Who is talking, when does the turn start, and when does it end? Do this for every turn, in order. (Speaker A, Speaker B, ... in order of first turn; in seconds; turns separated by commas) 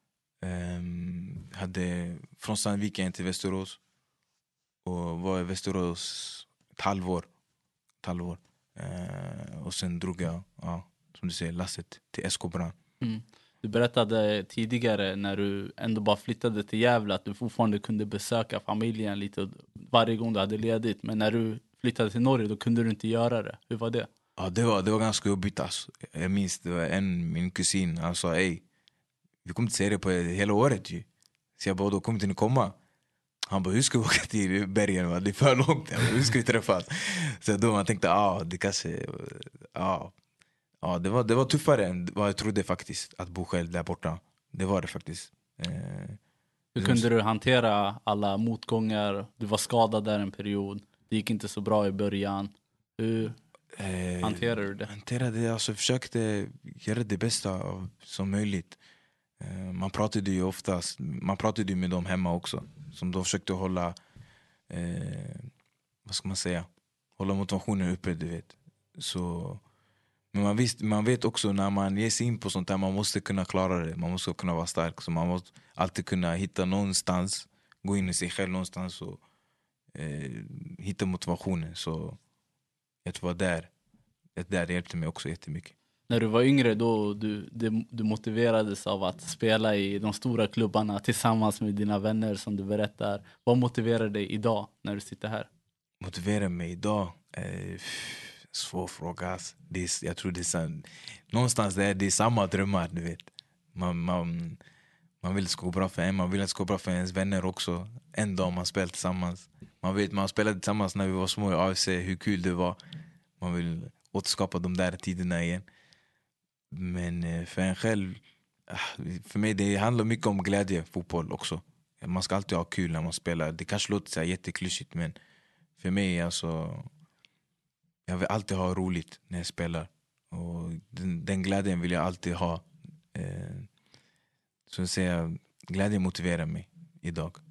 Speaker A: 0.4-3.8, Speaker A: 4.8-7.3, Speaker A: 8.0-12.8, Speaker B: 13.0-24.1, Speaker A: 24.4-28.6, Speaker A: 29.4-31.1, Speaker A: 31.6-32.8, Speaker A: 33.5-40.1, Speaker A: 40.8-46.2, Speaker B: 46.7-53.4, Speaker A: 46.8-47.0, Speaker A: 53.7-58.8, Speaker B: 54.2-54.9, Speaker A: 59.4-64.0, Speaker A: 64.7-65.5, Speaker A: 66.0-69.6, Speaker A: 70.3-79.2, Speaker A: 79.9-82.2, Speaker A: 83.0-83.7, Speaker A: 84.3-85.7, Speaker B: 86.1-95.5, Speaker A: 96.0-104.6, Speaker A: 105.2-112.8, Speaker A: 113.4-115.6, Speaker A: 116.7-125.1, Speaker A: 125.8-126.9, Speaker A: 128.1-133.7, Speaker A: 134.7-137.4